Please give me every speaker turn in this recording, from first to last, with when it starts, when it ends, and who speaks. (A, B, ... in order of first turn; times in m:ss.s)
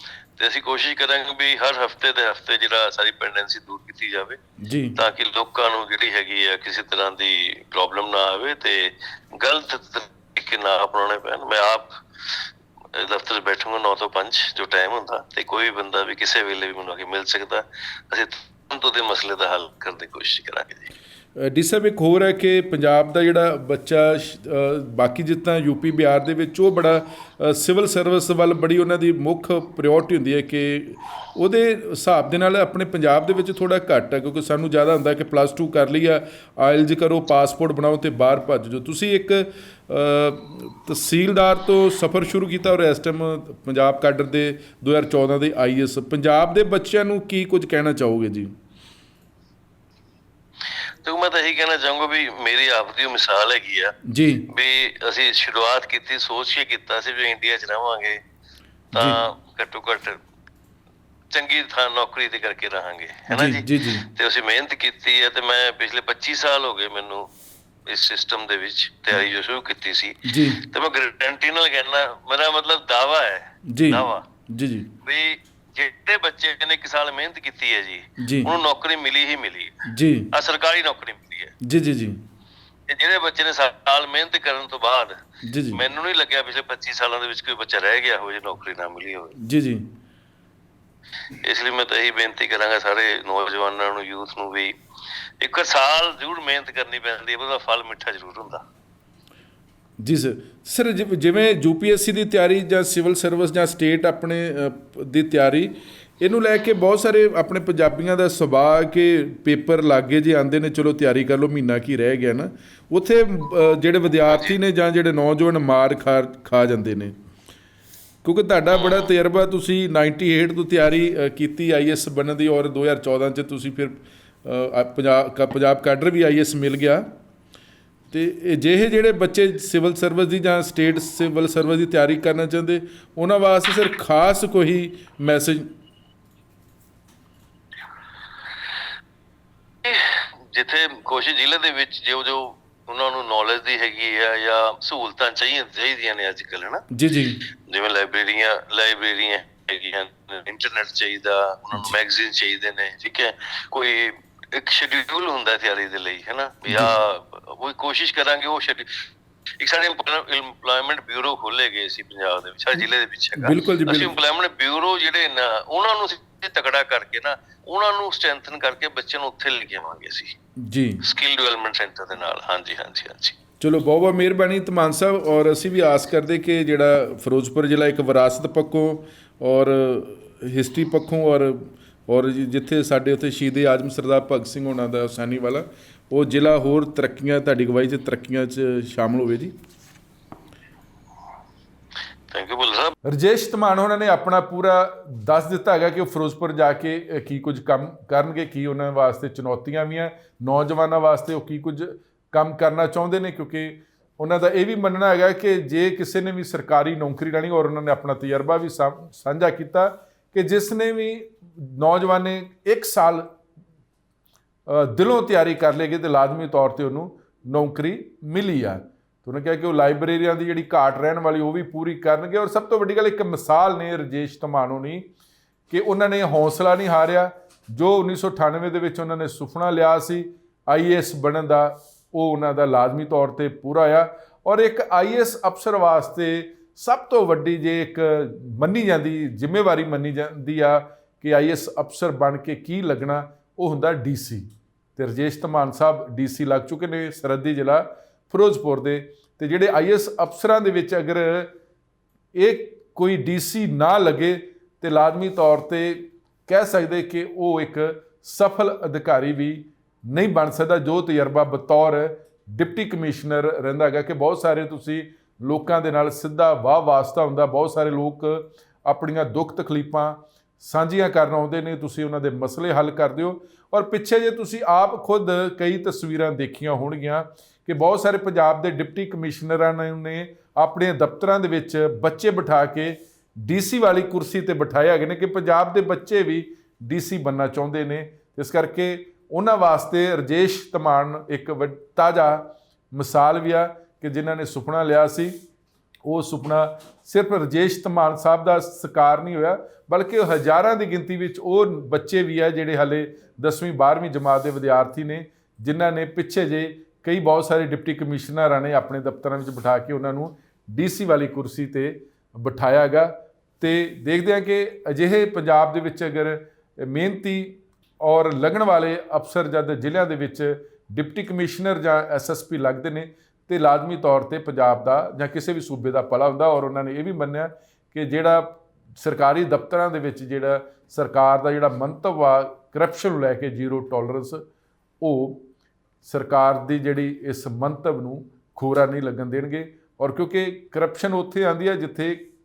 0:00.4-0:04.4 A
0:04.6-0:05.0 B
0:05.0-0:20.9 A
0:21.4-0:48.5 B
0:51.0-0:53.9 A
0:54.1-0:54.5 B
0:54.5-0:58.2 A
0:58.9-0:59.2 B
0:58.9-1:00.2 A
1:01.3-1:07.2 A
1:03.3-1:04.0 B
1:07.9-1:14.2 A
1:10.2-1:10.6 B
1:13.7-1:14.9 B
1:15.0-1:21.5 A
1:18.2-1:18.5 B
1:19.8-1:20.3 B
1:21.6-1:22.2 B
1:22.9-1:25.1 A
1:25.4-1:25.8 B
1:25.7-1:29.4 A
1:29.4-1:29.9 B
1:31.3-1:34.7 A
1:35.4-1:38.6 A
1:40.0-1:57.2 B
1:54.3-1:54.6 A
1:58.2-2:07.1 B
1:58.7-1:59.1 A
2:08.1-2:15.7 B
2:19.8-2:26.8 A
2:26.9-2:27.4 B
2:27.7-2:39.0 A
2:36.7-2:36.9 B
2:39.6-2:50.3 A
2:43.4-2:44.1 B
2:50.6-2:51.0 B
2:51.0-2:53.4 A
2:53.6-3:09.5 B
3:12.3-3:12.9 A
3:13.0-3:33.3 B
3:34.7-3:45.1 B
3:45.7-4:04.4 B
4:05.0-4:11.5 B
4:12.4-4:55.3 B
4:56.0-5:34.4 B
5:35.0-5:35.4 B
5:36.0-5:42.3 B